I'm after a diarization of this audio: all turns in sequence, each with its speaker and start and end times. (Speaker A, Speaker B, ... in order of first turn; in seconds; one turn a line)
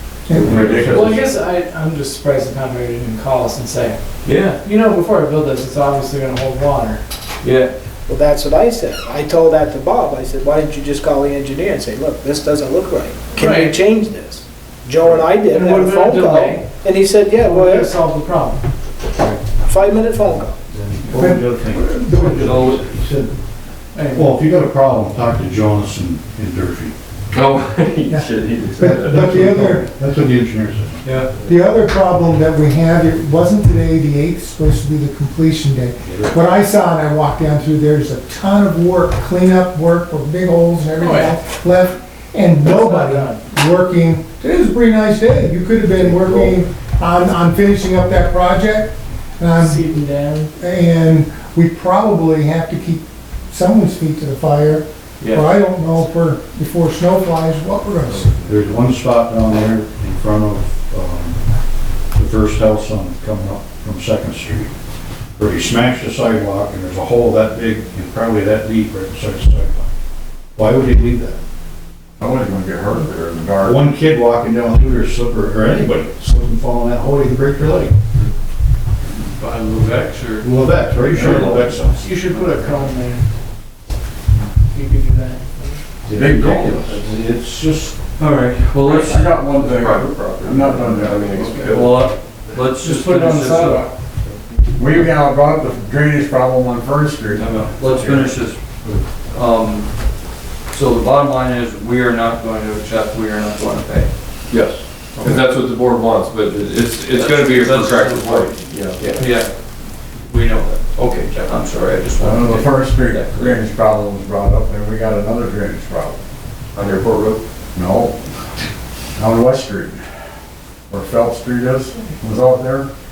Speaker A: 0.3-0.7
Speaker B: 0.3-1.2
Speaker C: 0.3-1.2
Speaker D: 0.5-1.2
Speaker E: 0.8-7.0
Speaker F: 4.2-4.6
Speaker F: 7.4-7.7
Speaker G: 8.1-17.9
Speaker E: 13.3-13.8
Speaker E: 15.4-16.7
Speaker E: 17.4-18.6
Speaker G: 19.6-20.6
Speaker C: 20.7-23.3
Speaker F: 21.1-21.3
Speaker A: 21.1-22.6
Speaker F: 22.2-22.8
Speaker E: 23.9-24.4
Speaker C: 24.1-26.9
Speaker B: 27.3-29.6
Speaker A: 28.1-29.9
Speaker C: 28.8-31.0
Speaker F: 31.0-31.3
Speaker A: 31.4-49.8
Speaker C: 36.0-36.4
Speaker E: 41.0-41.4
Speaker E: 42.6-43.4
Speaker E: 49.6-50.5
Speaker A: 50.5-58.3
Speaker F: 55.2-55.5
Speaker C: 58.5-61.4
Speaker C: 62.1-64.7
Speaker C: 65.4-69.9
Speaker C: 70.6-71.4
Speaker D: 72.2-73.9
Speaker C: 73.6-78.0
Speaker F: 79.1-82.9
Speaker C: 80.4-82.0
Speaker B: 81.2-81.7
Speaker E: 82.0-83.3
Speaker E: 84.6-85.8
Speaker C: 86.0-88.0
Speaker D: 86.1-86.5
Speaker B: 86.2-87.2
Speaker F: 88.2-89.4
Speaker D: 88.8-91.7
Speaker B: 89.4-92.2
Speaker F: 91.7-93.9
Speaker E: 92.8-93.9
Speaker D: 93.6-93.9
Speaker D: 94.7-98.4
Speaker F: 97.3-98.6
Speaker F: 99.3-99.9
Speaker F: 100.7-104.1
Speaker B: 104.5-109.4
Speaker F: 107.1-113.6
Speaker D: 112.2-116.2
Speaker B: 116.7-117.4
Speaker D: 117.7-118.2
Speaker D: 119.2-120.0
Speaker D: 120.9-122.9